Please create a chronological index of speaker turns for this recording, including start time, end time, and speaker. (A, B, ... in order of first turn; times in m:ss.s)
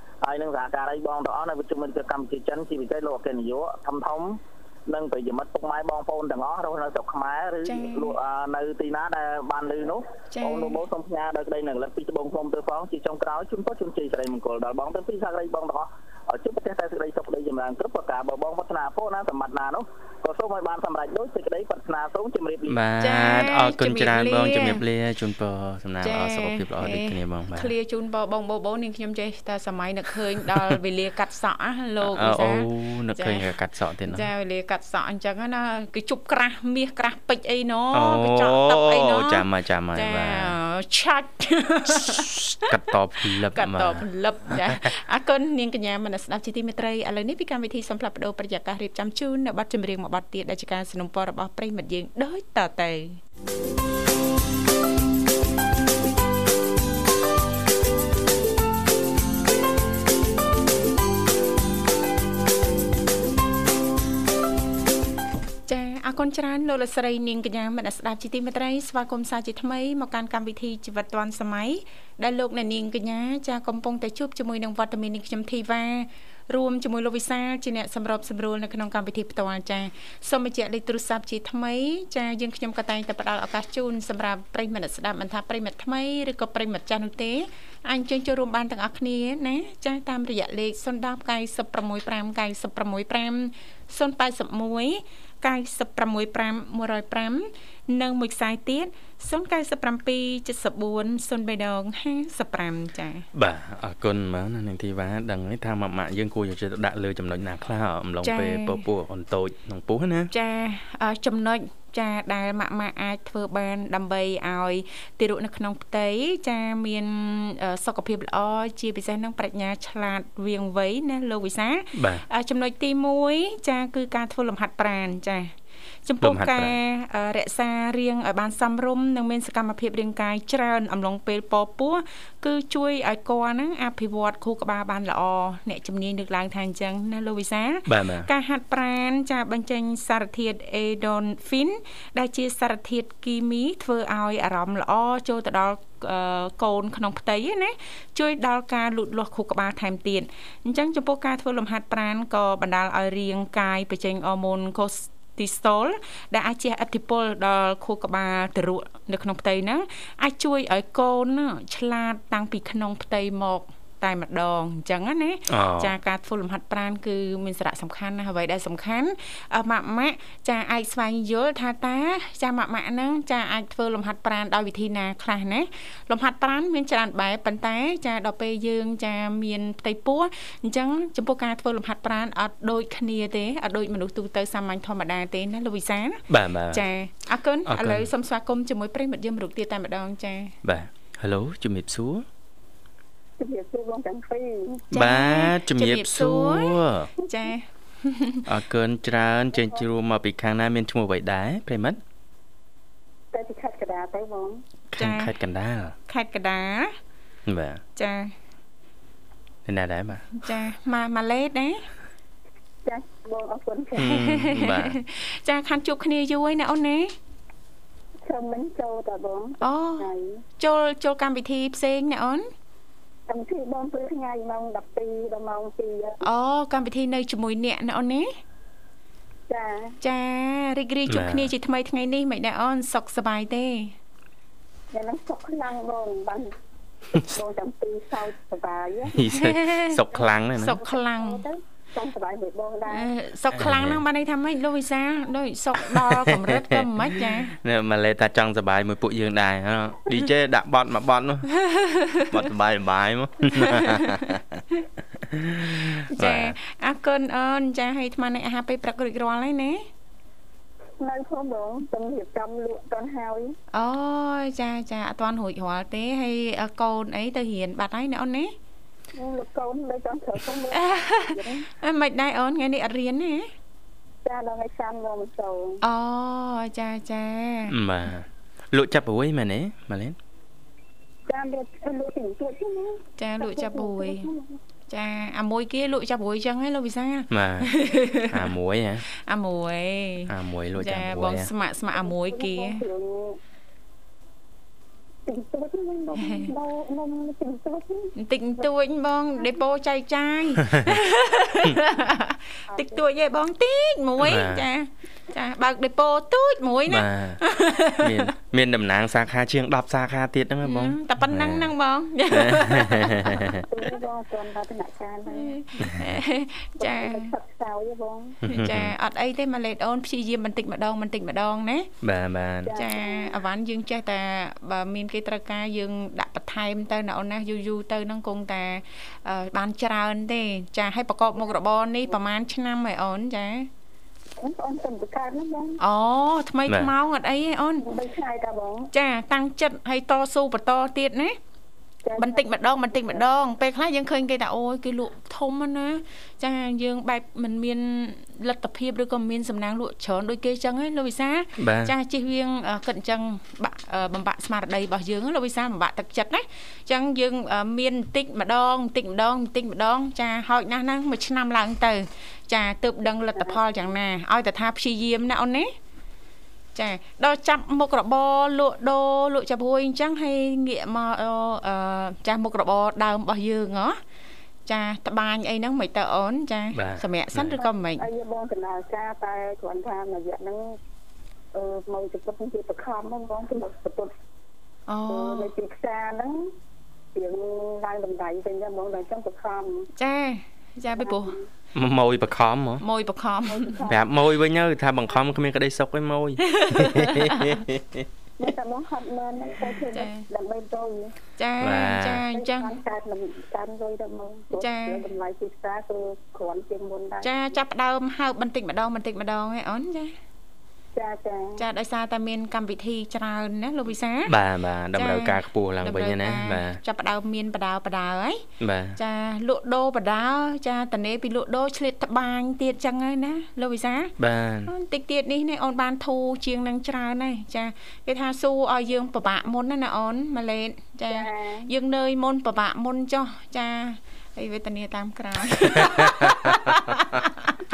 0:00.2-0:22.8 A
0:07.6-0:08.2 B
0:10.3-0:10.8 B
0:22.7-0:27.7 C
0:23.0-0:24.8 B
0:26.0-0:33.5 B
0:32.0-0:34.3 C
0:34.1-0:42.7 B
0:37.9-0:40.6 C
0:42.6-0:44.8 C
0:43.4-0:53.2 B
1:05.7-1:43.3 B
1:43.3-1:50.3 C
1:48.2-1:48.8 B
1:50.3-2:05.5 B
2:01.9-2:02.2 C
2:06.0-3:10.6 B
2:06.2-2:06.7 C
2:17.9-2:18.3 C
2:45.5-2:45.9 C
3:06.3-3:06.8 C
3:07.7-3:08.1 C
3:10.6-3:12.2 C
3:13.4-3:14.8 D
3:14.9-3:18.4 B
3:14.9-3:17.1 C
3:18.5-3:22.0 C
3:19.5-3:19.8 D
3:23.3-3:24.6 D
3:24.9-3:26.0 C
3:25.0-3:25.3 B
3:26.1-3:26.9 B
3:27.5-3:27.8 C
3:28.0-3:28.3 B
3:29.6-3:30.3 C
3:30.4-3:31.9 B
3:32.8-3:34.0 D
3:34.0-3:37.1 B
3:34.0-3:34.9 C
3:38.2-3:40.4 D
3:39.6-3:42.5 B
3:43.3-3:46.2 D
3:46.2-3:48.3 B
3:49.5-3:49.9 D
3:50.0-3:53.9 B
3:51.1-3:51.5 C
3:54.9-3:56.5 D
3:57.2-3:59.3 D
3:59.1-4:00.8 C
3:59.3-4:00.0 B
4:00.6-4:01.4 B
4:00.6-4:03.1 D
4:02.9-4:07.5 B
4:03.6-4:04.0 C
4:05.8-4:06.9 C
4:07.5-4:11.5 C
4:11.5-4:12.4 B
4:12.3-4:14.6 C
4:13.6-4:14.1 B
4:15.2-4:16.5 C
4:16.1-4:19.9 B
4:21.0-4:23.6 D
4:23.7-4:28.5 B
4:29.1-4:31.6 D
4:30.7-4:33.5 B
4:34.2-4:35.8 D
4:35.8-4:37.7 B
4:37.7-4:40.2 C
4:41.3-4:44.6 D
4:43.2-4:44.3 B
4:44.9-4:48.4 B
4:47.3-4:47.7 C
4:48.3-4:49.0 C
4:49.1-4:52.8 B
4:50.3-4:51.5 C
4:51.9-4:53.4 D
4:55.2-4:58.1 D
4:56.2-4:56.5 B
4:58.2-5:08.3 B
5:02.7-5:03.0 D
5:04.2-5:04.6 C
5:06.9-5:07.4 C
5:08.0-5:11.7 C
5:10.6-5:13.5 B
5:12.3-5:13.6 C
5:13.6-5:15.6 D
5:15.3-5:17.3 B
5:16.8-5:18.4 D
5:18.4-5:18.9 C
5:18.5-5:21.9 B
5:22.0-5:22.7 C
5:22.6-5:23.3 D
5:22.7-5:33.7 B
5:31.4-5:32.1 D
5:34.4-5:35.8 D
5:35.8-5:37.8 B
5:37.8-5:38.9 D
5:38.9-5:41.4 B
5:42.0-5:43.2 D
5:42.2-6:05.7 B
5:51.6-5:51.9 C
6:06.7-6:14.0 B
6:14.6-6:18.1 B
6:16.7-6:17.6 C
6:17.5-6:20.8 D
6:21.5-6:24.1 D
6:24.9-6:25.5 B
6:25.1-6:26.5 D
6:27.1-6:29.9 D
6:30.0-6:31.4 B
6:31.0-6:31.4 D
6:31.7-6:32.8 C
6:32.8-6:33.8 B
6:33.5-6:34.1 D
6:33.9-6:38.0 C
6:36.5-6:37.5 B
6:38.4-6:41.1 D
6:39.9-6:40.2 B
6:41.4-6:42.7 B
6:41.6-6:42.2 C
6:42.3-6:47.3 D
6:44.5-6:45.0 B
6:47.2-6:50.1 B
6:50.9-6:51.6 D
6:51.6-6:54.3 B
6:54.2-6:56.8 C
6:54.9-7:04.1 B
6:58.6-6:59.0 C
7:04.2-7:04.7 C
7:04.6-7:17.6 B
7:11.1-7:11.7 D
7:15.8-7:16.7 C